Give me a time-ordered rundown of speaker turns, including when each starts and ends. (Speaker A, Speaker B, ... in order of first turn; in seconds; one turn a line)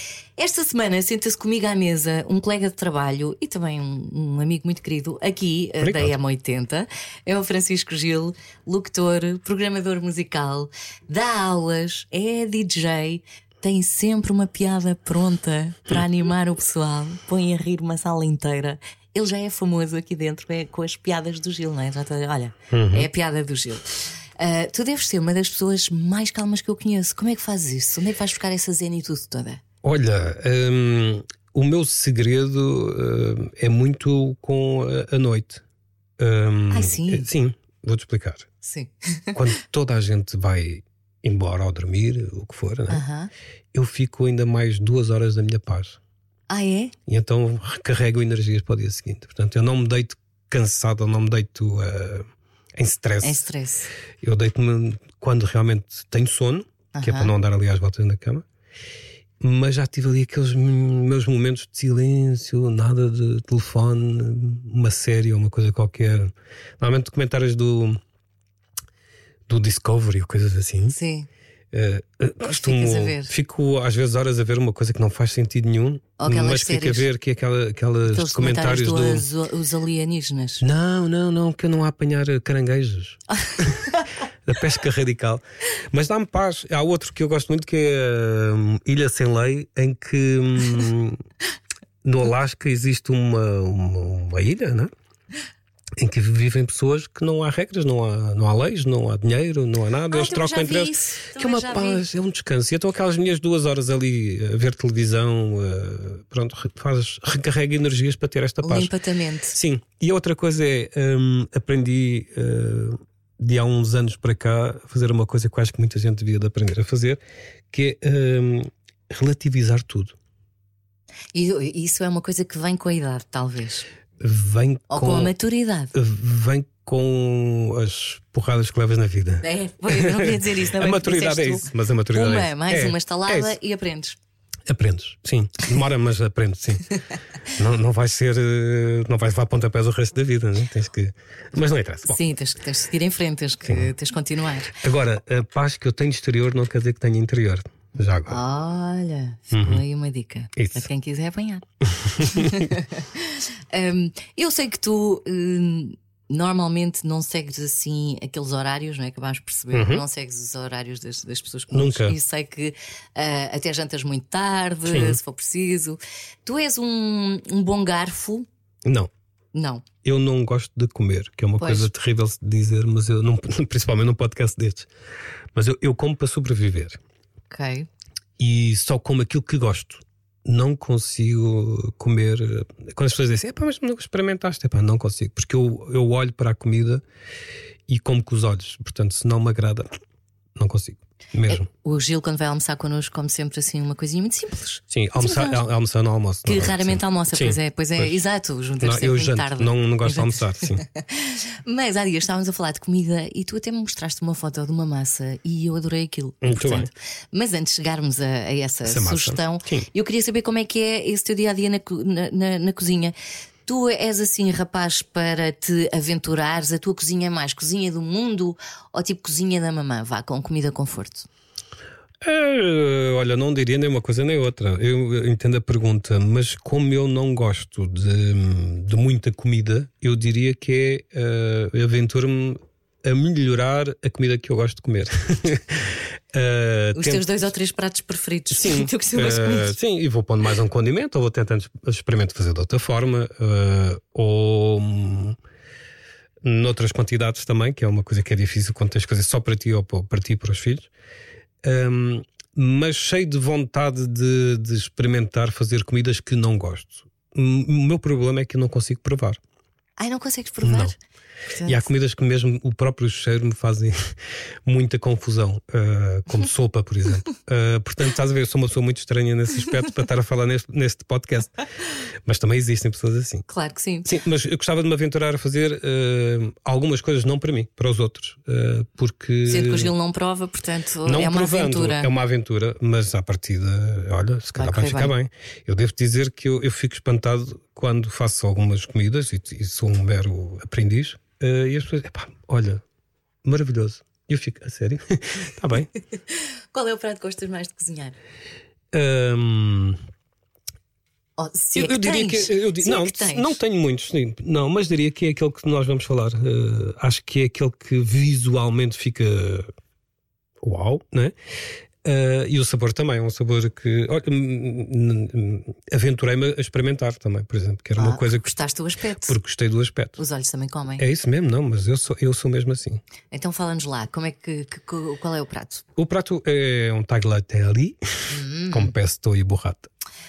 Speaker A: 0.4-29.6
Speaker B: 5.8-6.1
Speaker B: 22.7-23.1
Speaker B: 29.8-35.6
Speaker B: 36.2-38.5
Speaker A: 36.7-37.3
Speaker A: 38.6-39.4
Speaker B: 39.3-43.0
Speaker A: 42.9-43.3
Speaker B: 43.7-46.0
Speaker A: 46.5-46.9
Speaker B: 47.1-53.5
Speaker A: 53.2-53.9
Speaker B: 54.2-58.4
Speaker A: 56.9-57.3
Speaker B: 59.4-68.0
Speaker B: 69.5-71.0
Speaker A: 70.9-71.3
Speaker B: 71.7-79.2
Speaker A: 72.4-73.3
Speaker A: 76.2-77.1
Speaker A: 78.0-80.6
Speaker B: 80.6-83.9
Speaker A: 83.5-84.1
Speaker B: 84.5-91.2
Speaker B: 92.0-94.9
Speaker B: 96.0-108.9
Speaker A: 100.1-102.0
Speaker A: 108.6-109.5
Speaker B: 109.5-117.2
Speaker B: 117.7-120.1
Speaker A: 121.3-123.9
Speaker B: 124.2-125.3
Speaker A: 124.9-125.9
Speaker B: 125.9-133.6
Speaker A: 129.4-134.2
Speaker B: 134.7-136.9
Speaker B: 137.5-142.2
Speaker A: 142.1-144.8
Speaker B: 143.6-143.9
Speaker B: 144.8-148.4
Speaker A: 148.3-151.6
Speaker B: 149.5-149.8
Speaker B: 150.6-150.9
Speaker B: 151.8-152.7
Speaker A: 152.2-168.4
Speaker B: 159.7-160.0
Speaker B: 161.7-162.2
Speaker B: 164.9-165.2
Speaker A: 169.5-169.8
Speaker B: 170.0-174.9
Speaker A: 171.6-171.9
Speaker B: 175.5-177.0
Speaker A: 177.5-177.9
Speaker B: 178.4-187.0
Speaker B: 187.9-189.9
Speaker B: 190.6-191.6
Speaker A: 191.5-195.6
Speaker B: 194.9-198.1
Speaker A: 196.4-213.1
Speaker B: 198.8-200.8
Speaker B: 206.4-206.9
Speaker B: 208.8-209.9
Speaker A: 213.7-221.3
Speaker B: 222.2-237.2
Speaker A: 236.9-239.7
Speaker B: 238.5-245.4
Speaker B: 246.4-250.9
Speaker B: 251.6-259.4
Speaker A: 260.0-261.0
Speaker B: 260.6-260.9
Speaker A: 261.5-261.9
Speaker B: 261.6-264.1
Speaker B: 264.6-271.5
Speaker B: 272.2-273.4
Speaker A: 273.5-274.1
Speaker B: 274.0-279.9
Speaker A: 279.4-282.1
Speaker B: 281.0-292.8
Speaker A: 284.6-285.1
Speaker B: 293.4-295.9
Speaker A: 296.3-298.1
Speaker B: 298.9-300.0
Speaker A: 301.4-303.6
Speaker B: 301.7-309.7
Speaker B: 310.6-311.3
Speaker B: 312.0-318.6
Speaker A: 317.9-319.4
Speaker B: 319.2-320.2
Speaker A: 320.2-321.0
Speaker B: 321.0-323.0
Speaker A: 323.3-325.8
Speaker B: 325.9-329.9
Speaker A: 328.3-328.9